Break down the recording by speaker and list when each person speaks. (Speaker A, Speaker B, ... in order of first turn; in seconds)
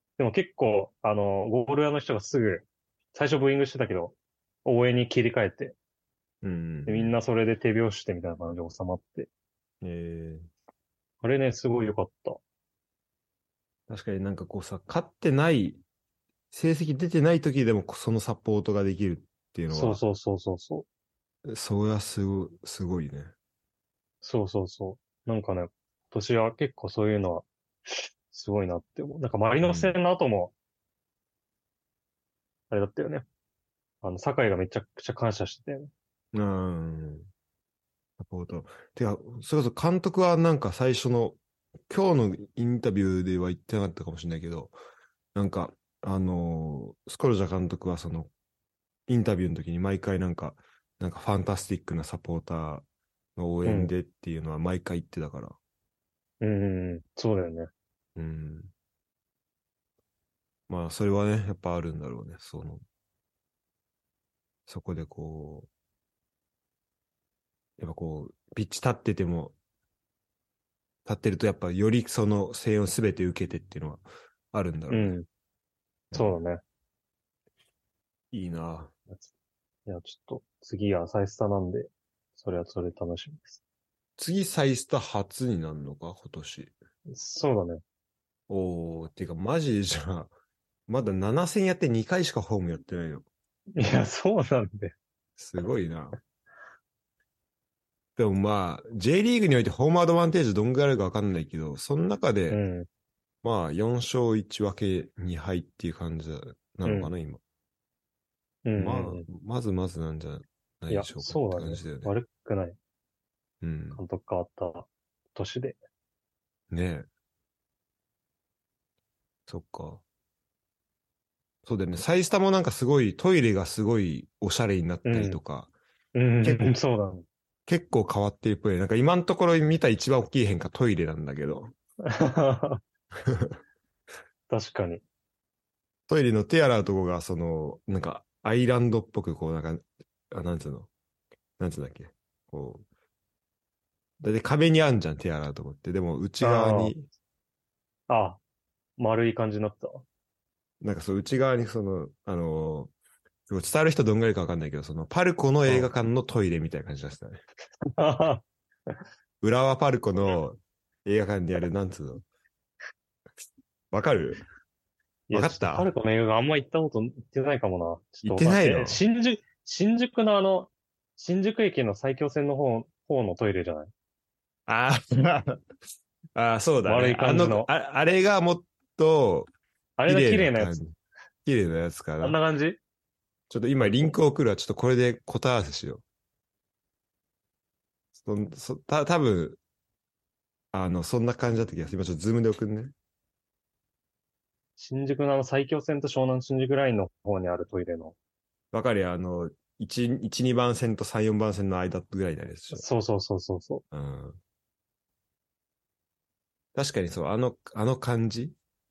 Speaker A: 0.2-5.8, 6.8-9.3, 11.2-12.4, 19.7-20.9, 24.2-30.5, 32.7-33.2, 34.0-35.9, 53.6-53.9, 56.4-57.7, 74.9-75.2, 76.1-76.6, 79.8-83.6, 87.1-87.8, 93.8-94.9, 102.5-102.9, 106.8-107.1, 108.6-109.2, 110.9-112.8, 113.9-115.8, 125.0-125.4, 126.1-127.2, 132.1-132.8, 134.5-135.0, 146.4-146.9, 148.1-148.4, 149.0-150.0, 157.8-159.0, 165.3-173.9, 176.8-177.7, 180.0-180.8, 182.2-182.8, 194.8-198.1, 202.7-203.8
Speaker B: 6.4-7.1, 9.8-10.5, 13.9-15.8, 16.5-20.0, 21.5-23.3, 29.6-29.9, 36.3-37.3, 38.2-41.4, 41.9-44.7, 45.3-48.3, 49.1-55.6, 58.1-58.7, 60.7-62.8, 64.7-65.7, 67.8-69.5, 71.0-75.2, 78.3-78.9, 84.2-86.7, 88.5-90.3, 90.9-93.2, 95.4-96.2, 98.2-102.6, 103.4-107.4, 108.8-112.1, 113.6-114.0, 116.7-117.0, 119.5-120.0, 121.6-125.7, 126.4-126.7, 127.7-131.7, 133.2-133.5, 136.1-140.9, 141.6-142.8, 144.2-147.1, 150.8-152.9, 153.5-157.4, 159.4-162.2, 163.9-164.4, 165.3-165.9, 168.2-169.0, 174.7-175.6, 176.3-179.5, 180.1-182.4, 183.5-186.0, 188.2-189.6, 190.7-192.9, 198.7-202.8, 203.9-204.4, 206.7-208.6